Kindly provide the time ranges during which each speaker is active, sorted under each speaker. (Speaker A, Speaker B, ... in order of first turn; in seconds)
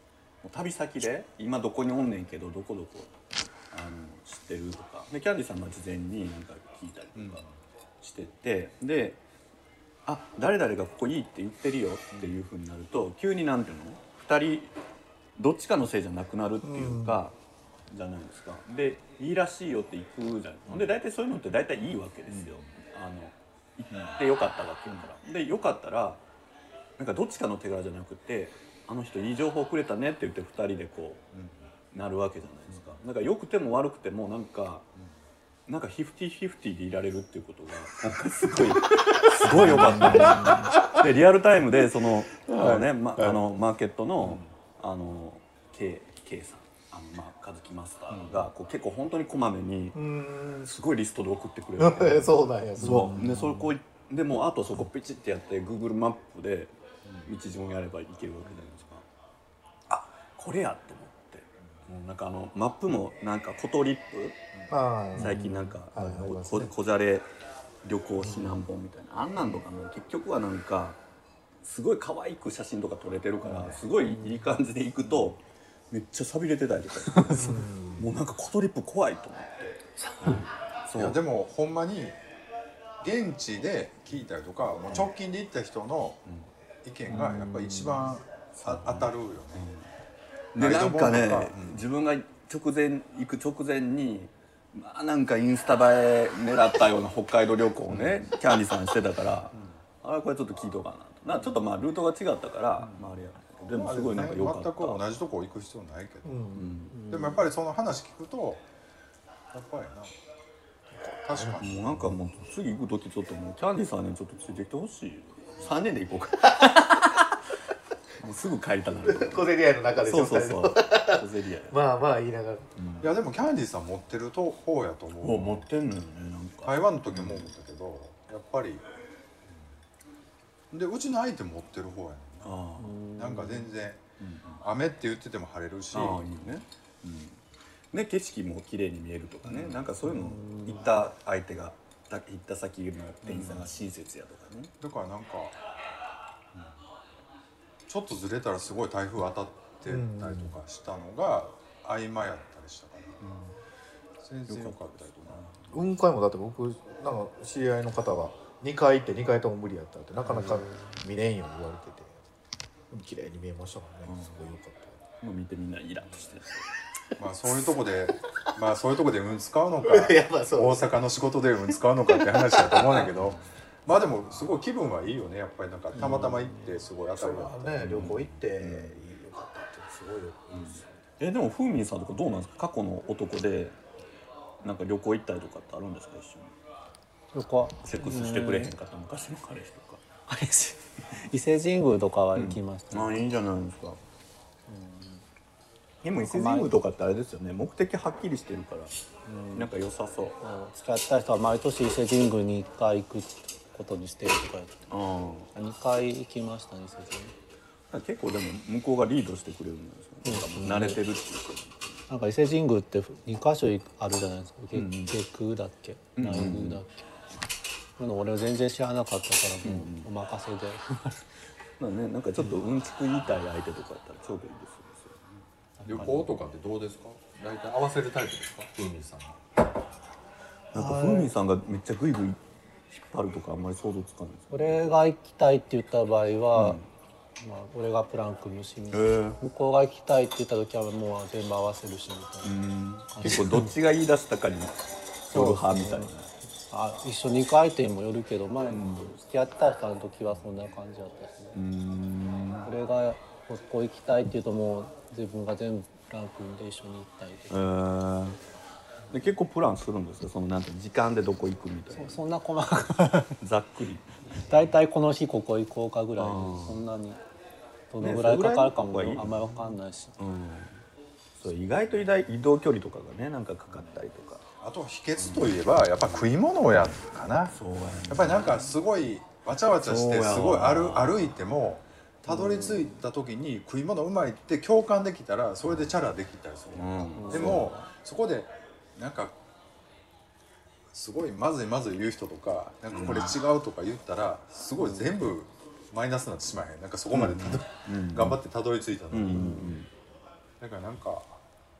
Speaker A: 0.4-3.1, 3.7-7.4, 8.0-9.2, 10.1-14.7, 15.4-17.4, 17.9-26.2, 27.0-31.2, 31.9-34.9, 35.7-50.0, 50.5-59.0, 59.9-64.4, 65.1-67.3, 67.8-71.0, 71.6-81.2, 87.1-87.5, 88.6-89.9, 90.5-105.0, 106.5-107.0, 111.5-117.4, 118.2-121.8, 122.8-123.1, 125.2-127.5, 132.4-133.0, 134.2-134.6, 135.9-137.4, 137.9-144.7, 154.5-155.8, 160.3-160.6, 164.1-164.4, 165.2-166.7, 173.1-173.4, 177.8-179.0, 180.7-183.8, 184.6-186.5, 187.8-190.0, 192.3-194.0, 196.0-198.9, 199.5-200.4, 204.9-205.5, 207.9-212.0, 214.7-215.1, 216.2-216.8, 219.6-220.1, 221.8-225.4, 230.7-234.8, 236.5-236.8, 238.9-239.4, 242.4-246.3, 248.7-249.1, 251.5-252.7, 257.5-258.4, 259.1-262.2, 263.4-264.6, 266.2-266.8, 268.0-270.8, 271.4-274.4, 275.2-275.6, 277.5-278.7, 279.8-281.3, 286.7-287.7, 292.9-293.4, 294.8-295.1, 297.1-298.4, 299.1-299.9
Speaker B: 7.2-7.5, 31.3-31.7, 32.7-33.0, 39.5-40.5, 44.2-44.5, 48.1-48.5, 73.4-73.8, 80.9-82.2, 83.0-86.2, 86.8-89.7, 90.5-91.8, 97.9-98.2, 102.8-103.1, 103.7-106.5, 107.1-108.6, 109.5-110.1, 111.0-112.1, 123.0-125.7, 126.6-128.8, 130.7-132.6, 133.1-134.0, 134.6-136.2, 139.4-139.8, 143.2-143.7, 144.8-145.5, 147.9-153.4, 154.2-155.5, 167.2-178.1, 225.8-229.4, 274.6-277.6, 278.1-289.4, 290.9-299.8, 300.6-301.4
Speaker C: 16.6-17.2, 39.7-40.8, 42.5-43.4, 49.9-50.7, 51.8-53.4, 64.7-66.7, 77.3-78.0, 106.2-106.8, 119.0-122.7, 149.8-150.5, 155.7-162.2, 162.9-165.0, 169.8-170.9, 172.2-173.0, 177.2-180.9
Speaker D: 74.1-74.4, 80.0-80.4, 87.5-88.0, 107.0-107.3, 132.8-133.7, 140.1-140.8, 187.3-188.7, 190.3-193.1, 194.7-195.2, 196.2-196.7, 199.2-199.7, 200.4-204.9, 205.5-207.3, 210.2-211.0, 212.1-217.1, 218.0-221.2, 225.8-226.2, 230.8-231.3, 234.5-236.8, 237.4-242.6, 243.1-243.7, 245.3-246.1, 246.7-251.6, 252.6-257.7, 261.9-263.4, 264.4-267.2, 267.9-270.1, 282.3-282.9, 287.2-287.7, 299.3-299.7